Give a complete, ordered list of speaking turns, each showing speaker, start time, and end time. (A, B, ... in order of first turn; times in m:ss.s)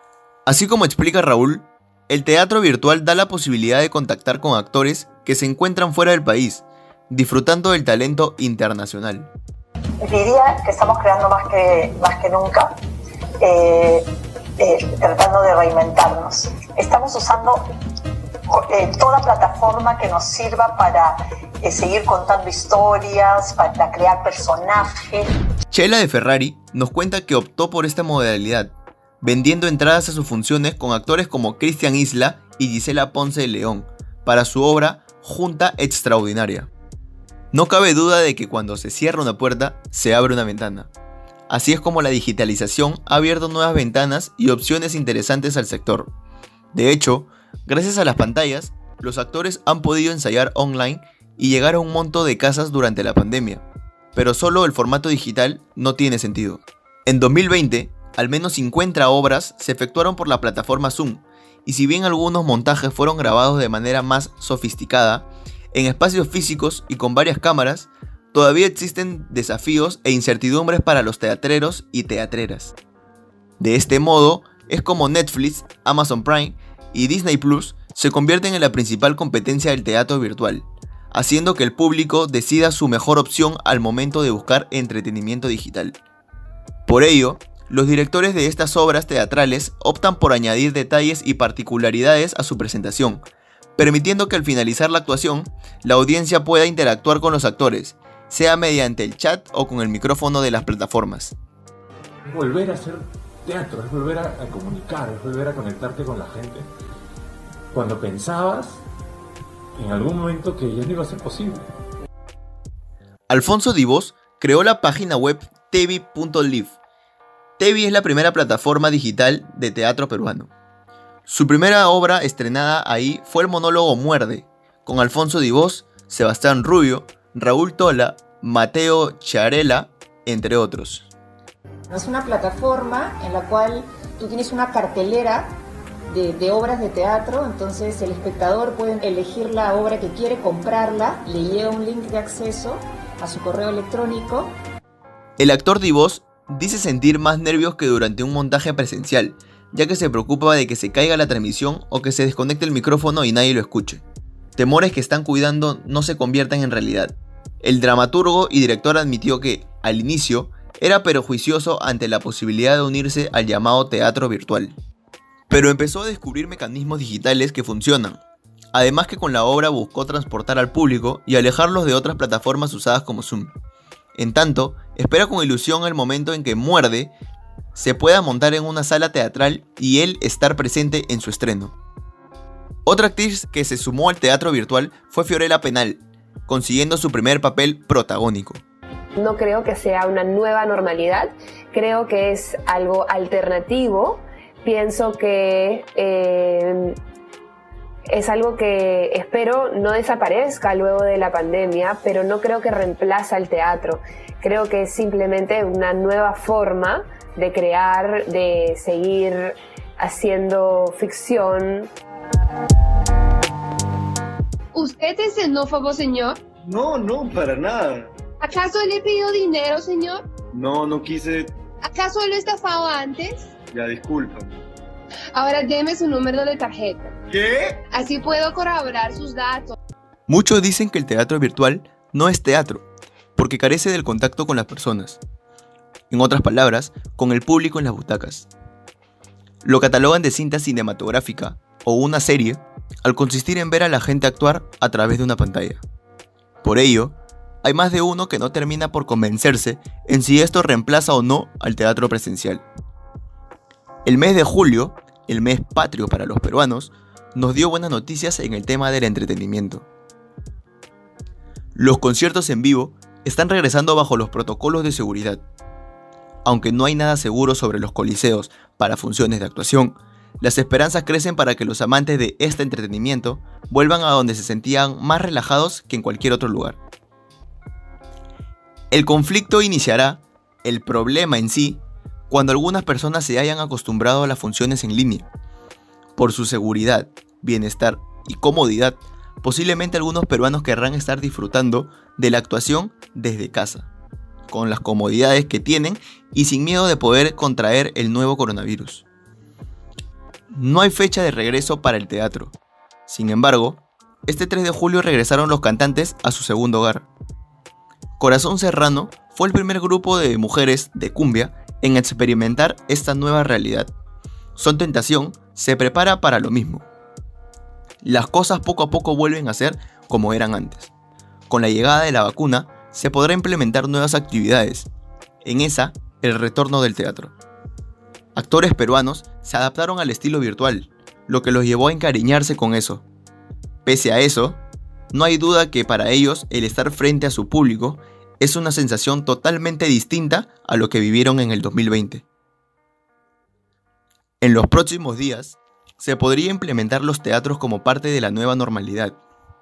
0:00.4-0:09.3 A
0:10.0-0:12.7 B
0:13.4-0:14.0 B
0:14.6-0:17.6 B
0:18.5-0:25.3 B
0:25.7-0:36.7 A
0:37.5-0:40.9 A
0:41.5-0:46.1 A
0:46.7-0:53.6 A
0:54.2-1:12.7 A
1:13.6-1:26.0 A
1:26.8-1:33.2 A
1:33.8-1:41.4 A
1:42.2-1:46.7 C
1:47.7-1:48.8 C
1:49.8-1:51.7 C
1:53.3-1:56.8 A
1:57.6-2:00.5 A
2:01.2-2:11.1 A
2:11.9-2:15.5 D
2:16.1-2:24.5 D
2:25.4-2:34.0 A
2:34.6-2:44.8 A
2:45.5-2:48.2 A
2:48.7-2:53.5 A
2:54.2-2:57.1 A
2:57.7-3:01.7 A
3:02.8-3:08.6 A
3:09.2-3:16.9 E
3:18.1-3:31.9 E
3:34.8-3:36.3 F
3:36.6-3:38.1 G
3:38.5-3:40.2 F
3:40.5-3:41.5 G
3:41.9-3:43.4 F
3:43.7-3:44.5 G
3:45.4-3:47.1 F
3:47.3-3:47.8 G
3:48.0-3:49.7 F
3:50.3-3:55.2 A
3:56.1-3:58.5 A
3:59.6-4:05.8 A
4:06.6-4:12.6 A
4:14.0-4:19.9 A
4:21.8-4:25.4 A
4:26.4-4:36.8 A
4:38.9-4:45.3 A
4:46.2-4:53.9 A
4:54.5-4:59.0 A
5:00.5-5:02.5 A
5:03.1-5:07.1 A
5:08.2-5:13.9 A
5:14.6-5:16.9 A
5:18.0-5:20.9 A
5:21.5-5:24.9 A
5:25.4-5:27.3 A
5:28.4-5:33.0 A
5:33.9-5:34.6 A
5:35.1-5:42.2 A
5:44.4-5:49.2 A